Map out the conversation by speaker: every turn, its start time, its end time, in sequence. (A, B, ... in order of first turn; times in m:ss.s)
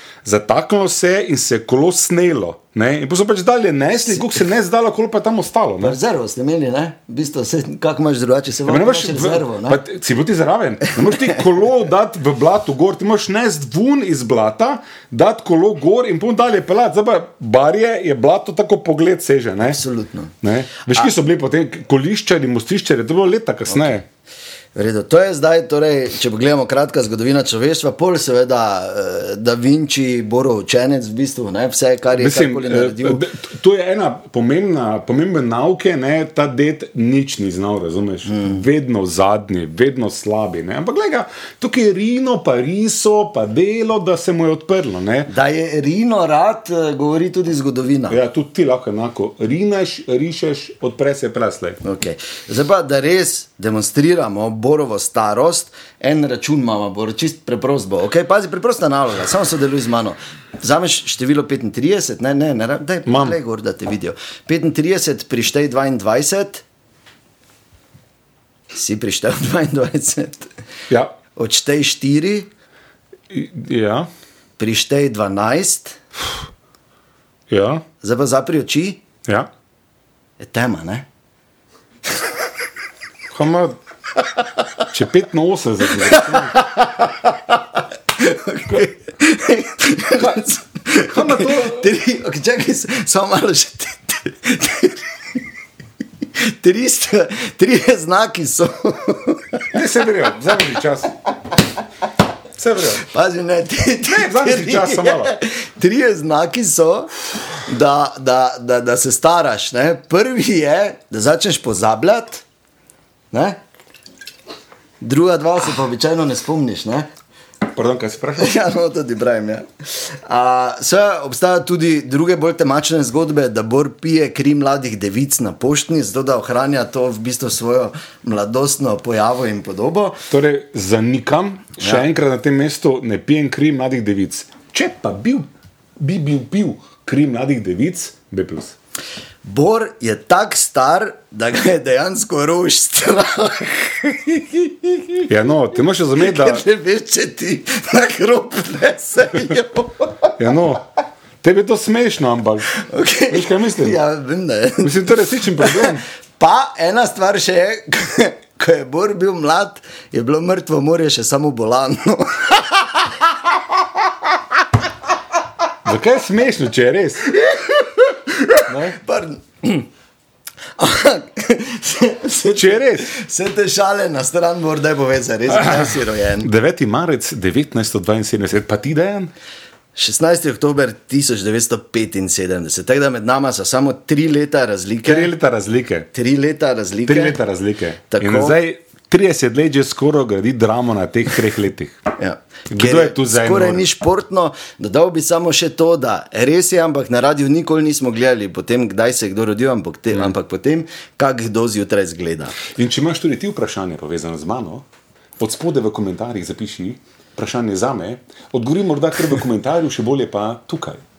0:00.2-0:06.0 A
0:05.8-0:09.8 B
0:08.7-0:19.8 A
0:19.6-0:20.3 B
0:20.4-0:24.0 A
0:23.7-0:23.9 B
0:24.8-0:33.3 B
0:32.2-0:45.3 A
0:38.3-0:38.6 B
0:45.3-0:48.2 B
0:48.1-0:51.8 A
0:51.8-1:06.6 B
1:03.1-1:03.4 A
1:08.7-1:10.5 B
1:10.9-1:11.2 A
1:11.3-1:12.5 B
1:13.3-1:14.1 A
1:14.6-1:16.0 B
1:17.5-1:17.8 A
1:18.0-1:19.0 B
1:20.4-1:21.1 B
1:23.3-1:23.8 A
1:24.9-1:26.5 A
1:25.9-1:35.0 B
1:31.0-1:31.9 A
1:36.4-1:39.7 B
1:39.7-1:41.1 A
1:42.6-1:43.0 A
1:43.0-1:47.1 B
1:44.1-1:45.3 A
1:47.6-1:52.4 B
1:53.3-1:53.6 B
1:55.0-1:57.1 B
1:57.7-1:58.6 A
1:58.4-2:10.2 B
2:10.3-2:15.5 A
2:16.0-2:18.7 A
2:19.4-2:25.2 B
2:25.3-2:26.6 A
2:26.2-2:30.4 B
2:30.4-2:30.8 A
2:31.4-2:32.7 A
2:32.7-2:43.2 B
2:33.3-2:34.0 A
2:34.8-2:36.0 A
2:45.8-2:47.3 A
2:47.3-2:49.9 B
2:48.7-2:48.9 A
2:50.8-2:56.5 B
2:52.5-2:53.1 A
2:55.5-2:59.3 A
3:00.0-3:05.3 B
3:05.0-3:06.1 A
3:06.1-3:07.4 B
3:07.1-3:12.0 A
3:08.1-3:08.6 B
3:12.2-3:22.6 B
3:12.7-3:13.8 A
3:22.7-3:24.8 A
3:25.4-3:31.0 A